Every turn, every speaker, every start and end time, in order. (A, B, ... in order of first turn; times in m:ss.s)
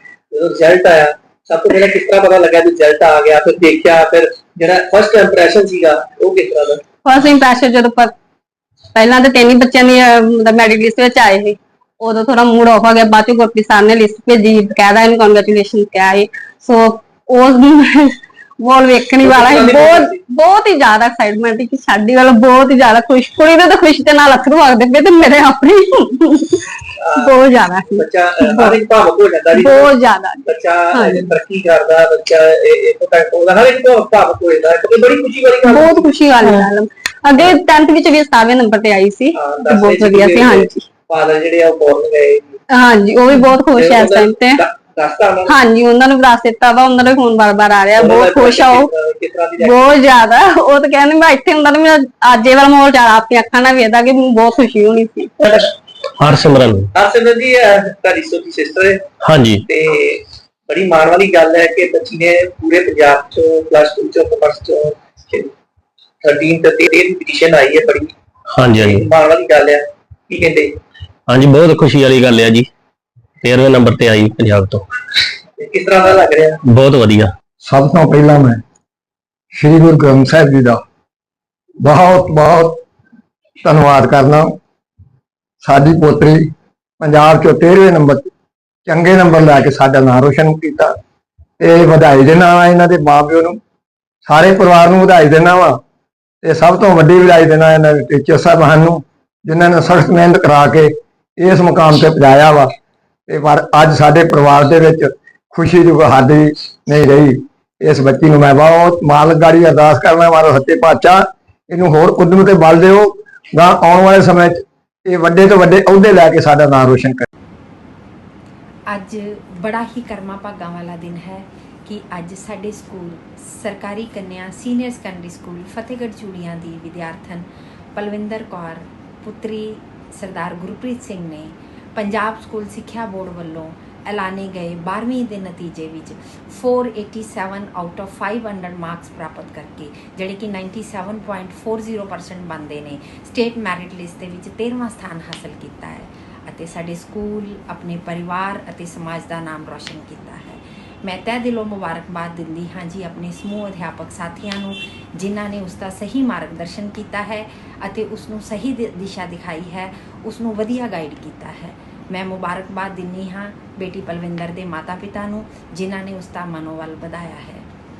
0:00.3-0:06.8 A
0:07.0-0:08.1 B
0:08.9-0:28.8 B
0:19.2-0:20.2 A
0:27.0-0:29.9 A
0:29.5-0:31.3 B
0:30.4-0:36.1 A
0:35.6-0:40.8 B
0:39.3-0:42.6 A
0:42.7-0:44.6 B
0:43.7-0:45.6 A
0:45.5-0:48.9 B
0:48.0-0:49.9 A
0:49.6-0:55.6 B
0:56.2-0:56.9 C
0:56.9-0:59.0 A
0:59.2-0:59.6 C
0:59.6-1:05.5 A
1:06.2-1:08.1 A
1:08.5-1:09.0 C
1:08.7-1:10.7 A
1:11.3-1:12.7 C
1:13.4-1:14.8 C
1:15.6-1:16.6 A
1:16.7-1:17.3 C
1:17.6-1:18.6 D
1:19.5-1:20.8 D
1:21.8-1:22.8 D
1:23.6-1:24.5 D
1:25.6-1:26.5 D
1:27.0-1:28.3 D
1:28.8-1:30.9 D
1:31.6-1:33.6 D
1:34.2-1:35.8 D
1:36.4-1:42.7 D
1:43.3-1:57.2 D
1:58.9-2:47.6 E